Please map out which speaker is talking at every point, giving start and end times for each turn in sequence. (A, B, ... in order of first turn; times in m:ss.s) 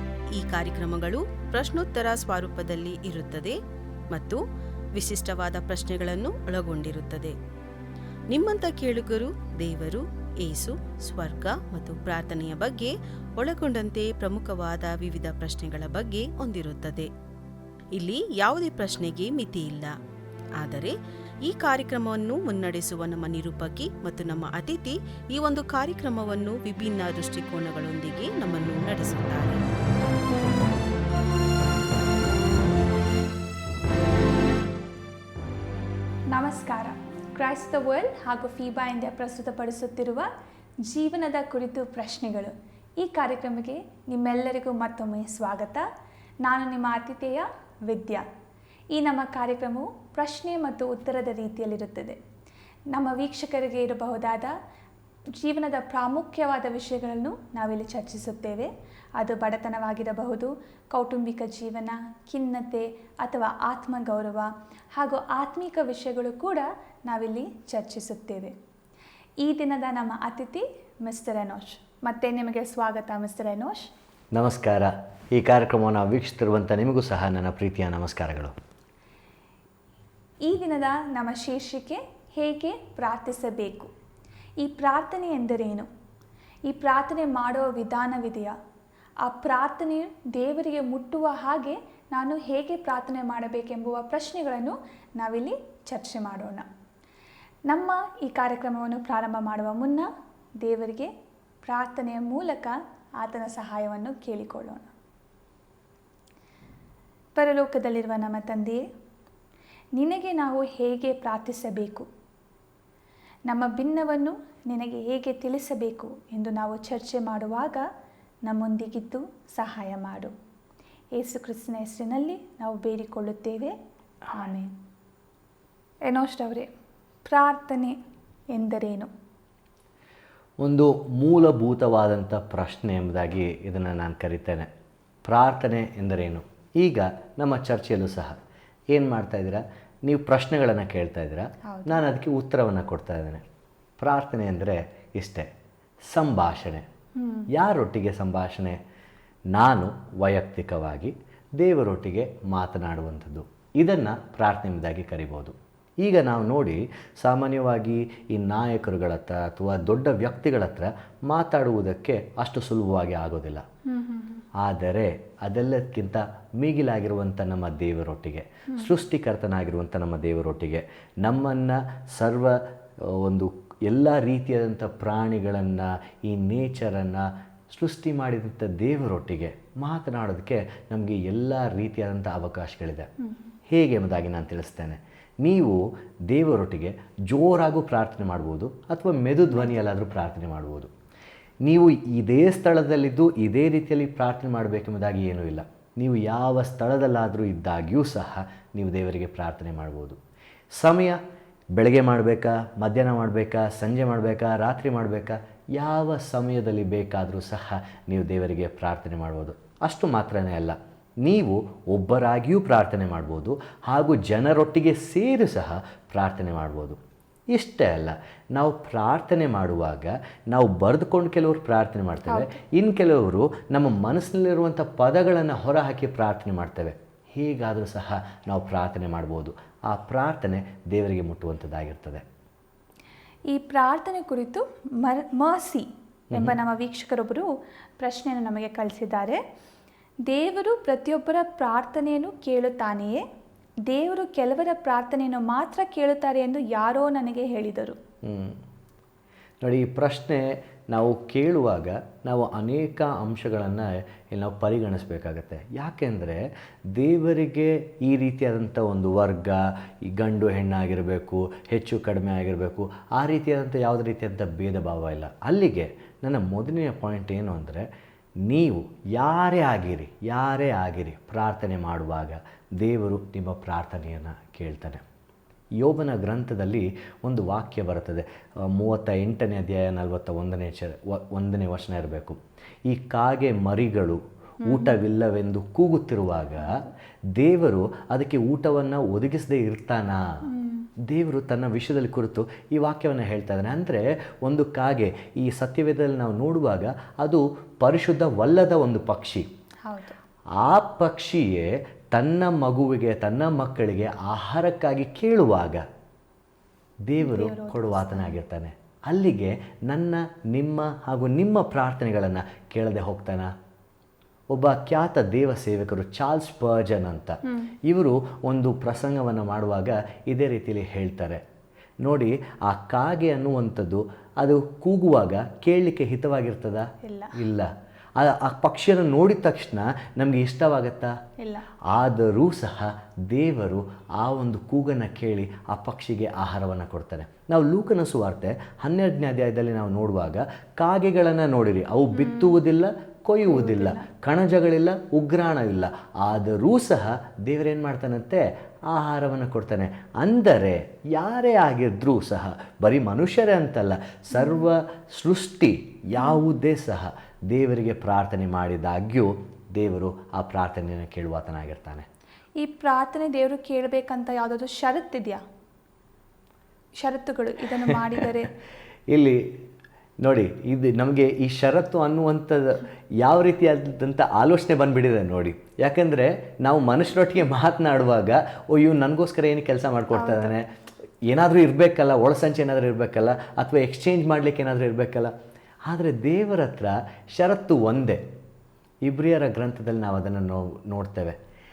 0:00.3-0:03.6 A
0:04.1-0:04.4 A
0:05.0-0:07.4 A
0:08.3-0:17.1 A
0:17.9-0:20.0 A
0:20.6-0:29.7 A
0:36.3-0:40.3 B
0:40.9-0:45.8 B
0:46.4-0:48.2 B
0:48.9-0:52.2 B
0:52.9-0:54.5 B
0:55.4-1:08.5 B
1:09.4-1:13.9 B
1:14.3-1:18.6 C
1:20.5-1:23.9 B
1:24.6-1:25.9 B
1:26.7-1:28.5 B
1:29.2-1:36.7 B
1:37.7-1:40.1 B
1:40.6-1:41.1 B
1:41.6-1:44.9 B
1:47.4-1:48.8 B
1:50.0-1:52.1 B
1:53.5-1:57.9 B
1:58.4-2:00.3 B
2:01.2-2:03.8 B
2:04.3-2:04.7 B
2:06.1-2:06.7 B
2:07.3-2:08.0 B
2:08.5-2:09.1 B
2:10.6-2:14.7 C
2:15.3-2:18.4 C
2:18.9-2:23.4 C
2:21.7-2:22.0 B
2:24.0-2:25.5 C
2:26.1-2:26.9 C
2:27.2-2:27.5 B
2:27.5-2:28.8 C
2:29.5-2:43.6 C
2:43.9-2:44.4 B
2:44.6-3:03.1 C
3:03.7-3:10.9 C
3:11.6-3:20.2 C
3:20.8-3:21.2 C
3:21.8-3:37.0 C
3:37.5-3:52.2 C
3:42.3-3:42.6 B
3:53.5-3:59.4 B
4:00.3-4:03.2 B
4:03.9-4:08.0 B
4:08.2-4:08.6 C
4:09.6-4:27.9 C
4:28.4-4:35.0 C
4:35.8-4:46.8 C
4:44.6-4:45.0 B
4:46.6-4:46.9 B
4:47.4-4:50.3 C
4:50.5-4:50.9 B
4:51.0-4:59.5 C
4:59.9-5:00.2 B
5:00.6-5:05.8 C
5:07.1-5:13.5 C
5:07.2-5:08.4 B
5:14.5-5:21.4 C
5:17.5-5:17.7 B
5:22.0-5:31.2 C
5:27.0-5:27.4 B
5:31.4-5:31.7 B
5:31.8-6:02.1 C
5:42.1-5:42.6 B
5:43.4-5:44.1 B
5:54.3-5:54.6 B
6:02.6-6:05.4 B
6:07.0-6:08.5 B
6:07.9-6:08.3 C
6:09.1-6:09.6 C
6:10.2-6:20.7 C
6:20.1-6:20.6 B
6:21.3-6:25.3 C
6:25.9-6:28.2 C
6:29.0-6:31.4 C